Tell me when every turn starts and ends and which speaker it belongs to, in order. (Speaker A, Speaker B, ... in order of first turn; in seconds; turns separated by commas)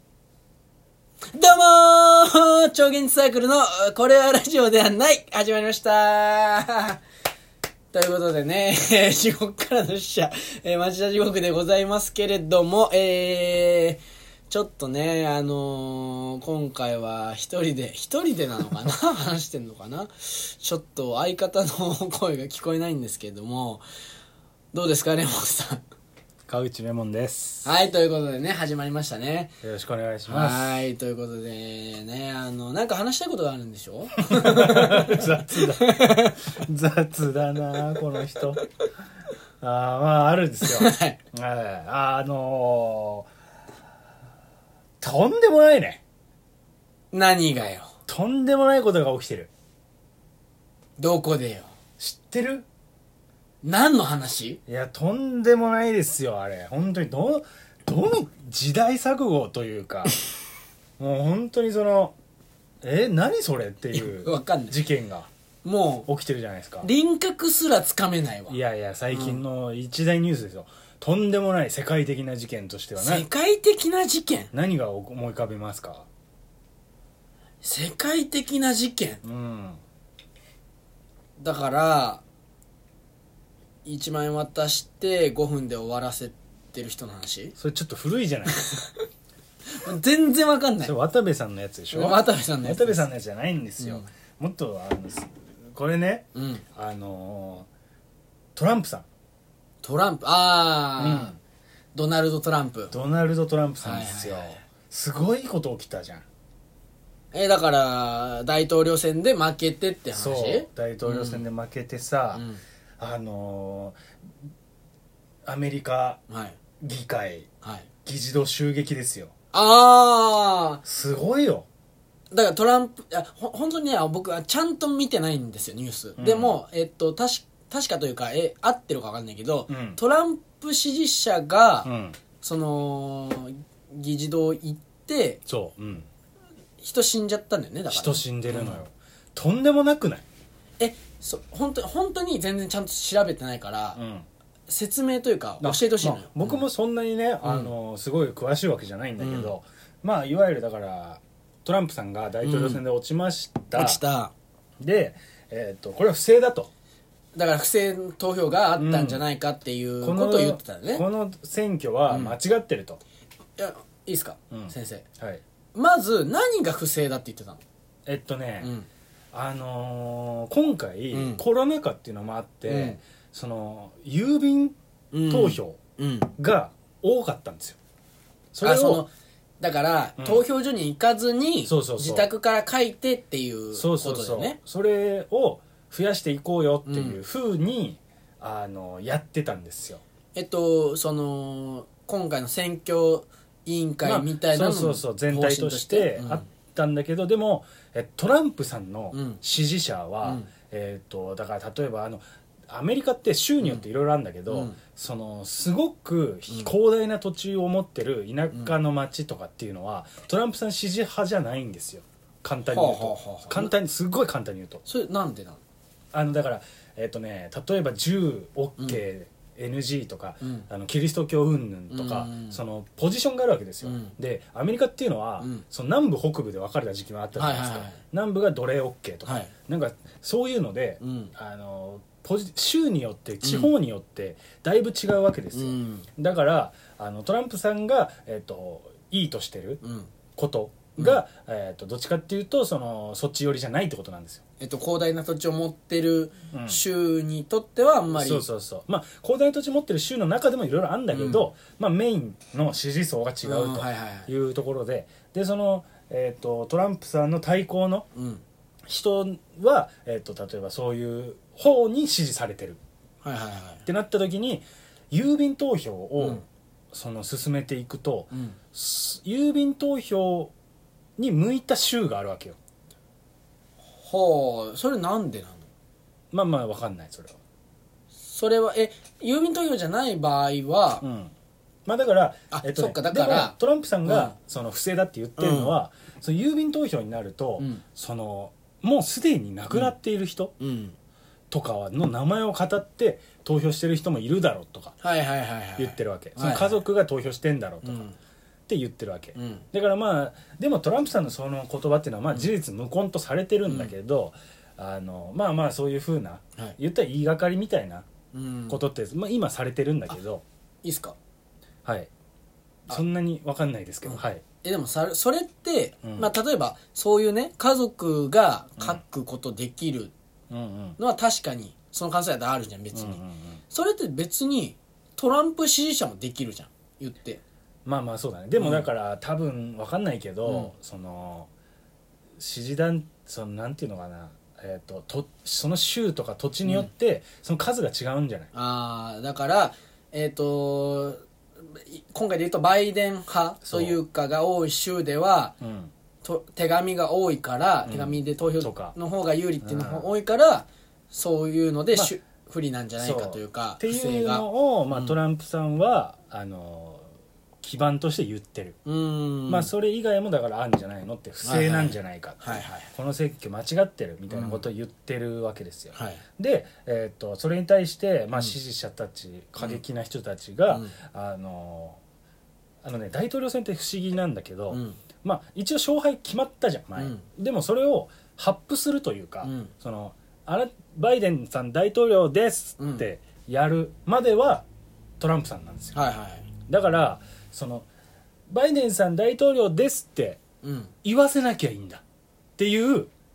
Speaker A: 1.3-7.0, Speaker A: 7.9-23.8, Speaker A: 24.7-25.8, Speaker B: 26.5-27.7, Speaker A: 27.6-29.5, Speaker B: 29.6-30.8, Speaker A: 30.2-36.4, Speaker B: 34.3-38.6, Speaker B: 39.6-43.3, Speaker A: 40.6-41.2, Speaker B: 45.0-46.0, Speaker A: 47.1-47.9, Speaker B: 48.1-49.5, Speaker A: 51.0-51.7, Speaker B: 52.0-52.6, Speaker A: 53.6-54.6, Speaker B: 54.7-60.2, Speaker B: 61.0-62.1, Speaker B: 62.8-65.3, Speaker A: 63.9-64.8, Speaker A: 65.6-66.1, Speaker B: 66.1-66.9, Speaker A: 66.8-68.6, Speaker B: 68.5-73.3, Speaker A: 69.1-69.4, Speaker A: 73.0-74.5, Speaker B: 74.5-76.1, Speaker A: 77.6-79.2, Speaker B: 79.2-79.8, Speaker A: 81.4-82.2, Speaker A: 83.8-87.5, Speaker B: 87.6-88.6, Speaker A: 88.5-89.0, Speaker A: 89.7-90.9, Speaker B: 90.8-97.7, Speaker A: 91.9-93.1, Speaker A: 93.8-94.0, Speaker A: 96.3-96.6, Speaker B: 98.5-99.0, Speaker A: 99.8-101.3, Speaker B: 101.0-101.4, Speaker A: 101.9-102.9, Speaker B: 102.9-106.2, Speaker A: 103.8-104.6, Speaker A: 107.3-111.5, Speaker B: 110.1-112.4, Speaker A: 112.3-112.6, Speaker B: 113.0-114.0, Speaker B: 115.4-116.2, Speaker A: 116.3-116.6, Speaker B: 116.8-117.5, Speaker A: 117.6-117.9, Speaker B: 118.0-119.3, Speaker A: 119.5-120.8, Speaker B: 120.8-121.7, Speaker A: 122.3-131.9, Speaker B: 126.2-126.6, Speaker B: 129.7-130.0, Speaker B: 131.8-132.2, Speaker A: 132.4-135.4, Speaker B: 135.4-136.1, Speaker A: 136.8-138.8, Speaker B: 137.9-140.2, Speaker A: 140.8-144.0, Speaker B: 143.9-144.3, Speaker A: 144.7-146.6, Speaker B: 145.6-154.0, Speaker A: 147.4-147.7, Speaker A: 149.2-149.5, Speaker A: 152.4-152.8, Speaker A: 153.7-154.3, Speaker B: 154.8-156.7, Speaker A: 157.3-161.0, Speaker B: 158.8-159.2, Speaker B: 160.0-163.0, Speaker A: 162.1-162.4, Speaker A: 163.6-165.0, Speaker B: 164.5-165.4, Speaker A: 165.7-167.6, Speaker B: 168.1-168.7, Speaker A: 168.6-168.9, Speaker B: 169.3-174.8, Speaker A: 171.1-171.4, Speaker A: 172.7-173.0, Speaker A: 175.1-176.3, Speaker B: 175.3-175.8, Speaker B: 176.4-177.8, Speaker B: 178.5-179.0, Speaker A: 178.6-184.6, Speaker B: 180.2-180.4, Speaker B: 181.7-182.3, Speaker B: 183.7-190.0, Speaker A: 186.9-187.2, Speaker A: 190.3-196.4, Speaker B: 194.0-214.8, Speaker A: 199.1-199.4, Speaker A: 200.2-200.5, Speaker A: 204.5-204.8, Speaker A: 212.7-213.7, Speaker A: 214.8-215.6, Speaker B: 216.1-239.8, Speaker A: 220.4-220.7, Speaker A: 221.9-222.6, Speaker A: 223.8-224.1, Speaker A: 227.3-228.0, Speaker A: 229.2-229.5, Speaker A: 231.0-231.3, Speaker A: 233.4-233.7, Speaker A: 235.5-236.1, Speaker A: 239.8-240.1, Speaker B: 240.3-244.4, Speaker A: 240.9-241.2, Speaker A: 244.6-248.4, Speaker B: 246.5-246.8, Speaker B: 248.1-258.1, Speaker A: 251.1-251.5, Speaker A: 253.4-254.3, Speaker A: 258.1-258.4, Speaker B: 258.9-262.8, Speaker A: 263.2-263.8, Speaker B: 263.9-270.5, Speaker A: 266.2-266.4, Speaker A: 268.3-268.6, Speaker B: 271.2-272.6, Speaker A: 273.9-275.7, Speaker B: 276.3-277.4, Speaker A: 278.2-281.0, Speaker B: 281.0-281.3, Speaker B: 281.9-290.5, Speaker A: 282.5-284.3, Speaker A: 285.4-285.8, Speaker A: 290.6-290.9, Speaker B: 291.5-294.9, Speaker A: 295.0-296.8, Speaker B: 295.8-298.1, Speaker A: 297.8-298.1, Speaker B: 298.7-308.1, Speaker A: 299.4-299.6, Speaker A: 303.6-303.9, Speaker A: 308.3-308.8, Speaker B: 308.7-310.4, Speaker A: 310.8-311.2, Speaker B: 311.8-312.1, Speaker B: 312.9-314.4, Speaker A: 314.1-320.1, Speaker B: 316.0-316.3, Speaker B: 320.5-321.0, Speaker A: 321.0-327.4, Speaker B: 322.9-323.6, Speaker B: 327.8-331.5, Speaker A: 328.6-328.9, Speaker A: 330.4-330.7, Speaker B: 332.4-338.5, Speaker A: 338.5-345.6, Speaker B: 343.6-344.0, Speaker B: 345.6-345.9, Speaker A: 346.2-355.2, Speaker B: 347.8-348.9, Speaker B: 349.6-350.1, Speaker B: 353.0-357.1, Speaker B: 357.6-358.8, Speaker A: 358.8-359.7, Speaker B: 359.5-372.0, Speaker A: 361.4-362.9, Speaker A: 364.3-364.6, Speaker A: 365.9-366.2, Speaker A: 370.7-370.9, Speaker B: 372.8-384.6, Speaker A: 374.7-375.0, Speaker A: 376.9-377.2, Speaker A: 379.4-379.7, Speaker A: 382.8-383.1, Speaker B: 385.2-386.0, Speaker A: 385.9-386.5, Speaker B: 386.7-387.9, Speaker B: 388.5-390.4, Speaker A: 390.6-390.9, Speaker B: 391.0-392.0, Speaker B: 392.6-393.1